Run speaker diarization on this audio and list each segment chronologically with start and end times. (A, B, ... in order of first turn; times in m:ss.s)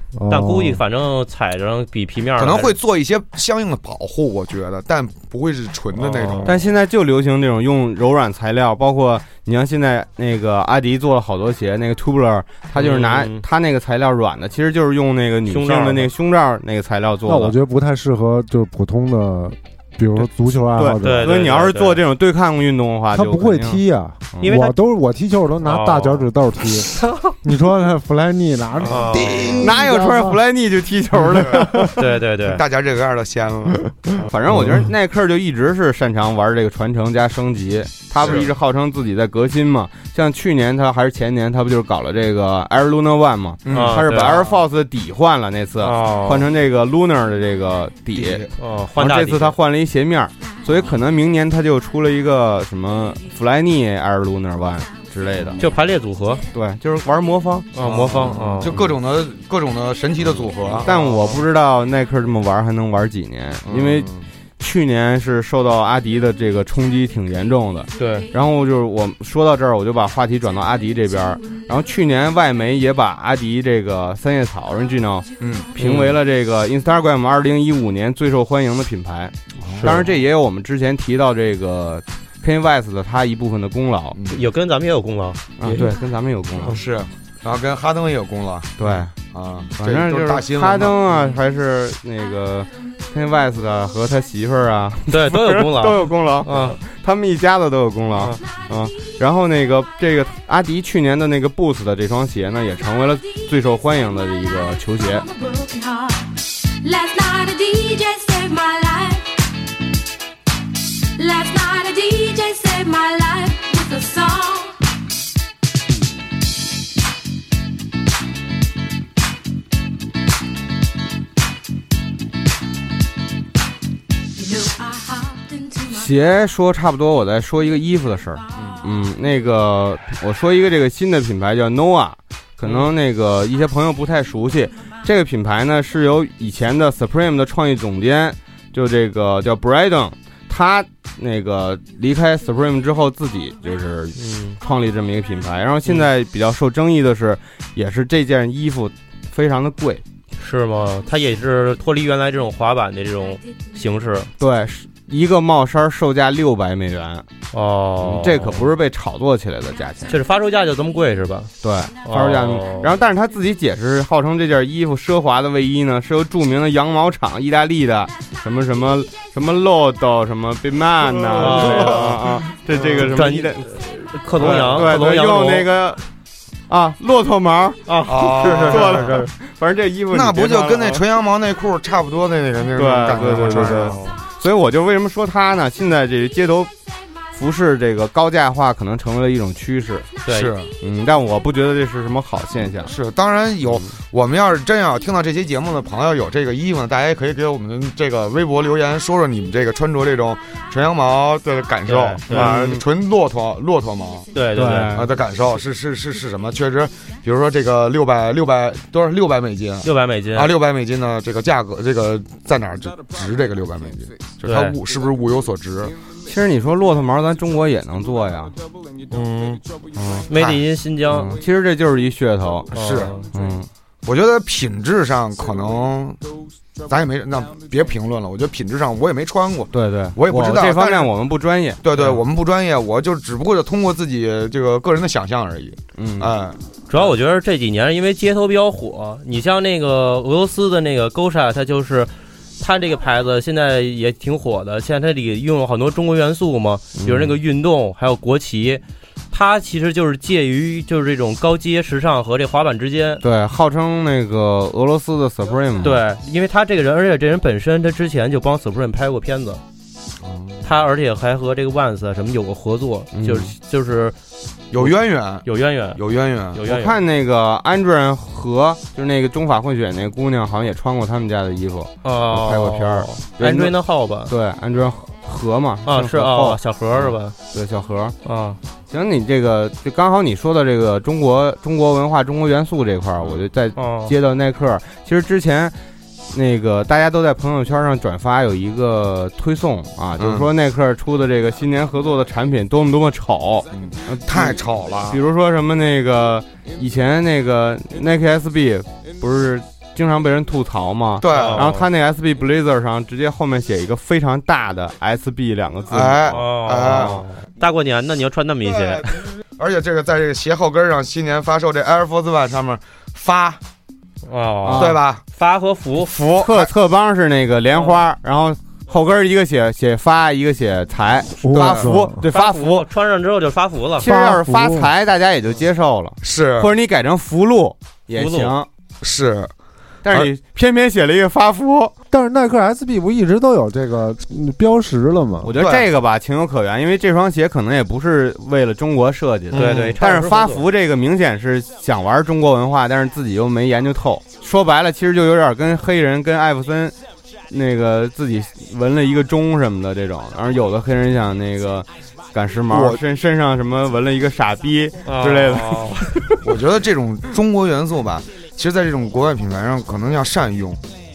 0:00.1-0:00.8 A
0:00.3-0:02.8 B
0:02.4-0:06.6 C
0:06.0-0:06.5 B
0:06.4-0:17.6 D
0:12.8-0:13.4 B
0:15.5-0:16.1 B
0:17.3-0:21.4 A
0:20.7-0:23.8 D
0:21.0-0:22.0 B
0:23.1-0:30.4 A
0:24.4-0:24.8 B
0:25.6-0:26.3 B
0:28.8-0:29.7 C
0:28.9-0:29.4 B
0:29.6-0:31.8 D
0:31.3-0:31.9 C
0:31.4-0:31.9 A
0:32.0-0:32.6 B
0:32.4-0:34.2 C
0:34.2-0:48.4 D
0:34.5-0:34.8 A
0:38.2-0:38.5 C
0:43.6-0:44.5 C
0:43.7-0:44.4 B
0:45.8-0:46.4 B
0:48.1-0:48.5 C
0:48.6-0:49.5 B
0:48.9-0:55.6 D
0:55.3-0:55.6 C
0:55.6-0:56.4 B
0:56.5-0:58.9 D
0:57.7-0:58.7 B
0:57.8-1:01.4 C
1:00.8-1:24.2 D
1:00.8-1:01.4 B
1:03.6-1:04.3 C
1:08.0-1:08.3 B
1:15.4-1:15.7 C
1:15.8-1:16.2 B
1:19.6-1:20.1 C
1:19.8-1:20.1 B
1:24.1-1:24.4 C
1:24.3-1:25.9 B
1:25.6-1:26.8 D
1:26.6-1:31.4 C
1:28.8-1:29.1 D
1:29.8-1:45.2 D
1:35.1-1:36.8 B
1:45.0-1:49.4 E
1:51.2-1:54.8 E
2:04.4-2:06.1 E
2:05.9-2:30.0 D
2:24.2-2:24.6 B
2:30.4-2:34.3 B
2:34.4-2:37.2 D
2:37.5-2:38.6 B
2:38.0-2:40.2 D
2:40.1-2:41.5 B
2:41.6-2:53.7 D
2:42.0-2:42.9 B
2:51.1-2:53.1 C
2:51.4-2:52.1 B
2:52.8-2:55.7 B
2:54.4-2:56.0 D
2:54.4-2:54.8 C
2:56.7-2:57.8 D
2:57.9-2:59.3 B
2:58.0-2:59.2 C
2:58.4-3:01.0 D
3:00.1-3:04.0 C
3:02.7-3:06.7 D
3:03.3-3:04.2 B
3:07.3-3:10.1 D
3:10.2-3:10.5 B
3:10.2-3:10.7 C
3:10.8-3:12.9 D
3:12.8-3:24.3 C
3:21.9-3:22.5 B
3:22.3-3:22.8 D
3:24.3-3:25.0 B
3:24.6-3:25.1 D
3:24.9-3:35.9 C
3:29.8-3:30.5 B
3:34.4-3:34.8 B
3:36.2-3:38.5 D
3:39.1-3:39.6 B
3:39.9-3:40.3 D
3:40.3-3:41.3 B
3:40.3-3:40.6 C
3:41.1-3:43.7 D
3:42.7-3:43.2 B
3:42.7-3:43.2 C
3:44.0-3:46.2 C
3:46.9-3:51.1 C
3:49.7-3:51.8 D
3:51.8-3:56.6 C
3:56.0-3:56.3 D
3:56.9-4:13.2 B
4:07.0-4:07.4 D
4:13.2-4:16.0 D
4:15.8-4:19.6 B
4:20.2-4:20.6 C
4:20.6-4:24.2 B
4:23.1-4:23.5 D
4:24.7-4:26.6 C
4:24.8-4:26.0 B
4:26.5-4:27.0 B
4:26.6-4:33.7 D
4:32.0-4:34.3 B
4:34.3-4:38.1 D
4:35.9-4:37.3 B
4:38.2-4:38.6 B
4:38.9-4:45.7 D
4:43.8-4:44.1 B
4:46.3-5:06.3 D
4:50.2-4:50.5 C
4:53.7-4:55.2 C
5:01.2-5:01.7 C
5:01.3-5:01.8 B
5:05.9-5:07.2 C
5:06.3-5:09.1 B
5:06.9-5:07.2 D
5:08.6-5:13.6 C
5:14.3-5:16.1 B
5:14.6-5:15.0 D
5:14.8-5:15.2 C
5:16.1-5:22.8 D
5:16.4-5:16.7 C
5:21.4-5:22.2 A
5:21.5-5:21.9 C
5:22.3-5:24.1 B
5:24.0-5:28.7 D
5:24.0-5:24.9 A
5:26.2-5:26.7 C
5:28.1-5:28.5 B
5:29.0-5:29.5 C
5:30.0-5:31.9 D
5:32.1-5:35.5 A
5:35.4-5:46.9 D
5:35.6-5:35.8 C
5:39.5-5:40.0 C
5:39.5-5:40.6 B
5:47.5-5:56.4 D
5:52.7-5:53.0 C
5:55.0-5:56.0 B
5:56.4-6:00.8 C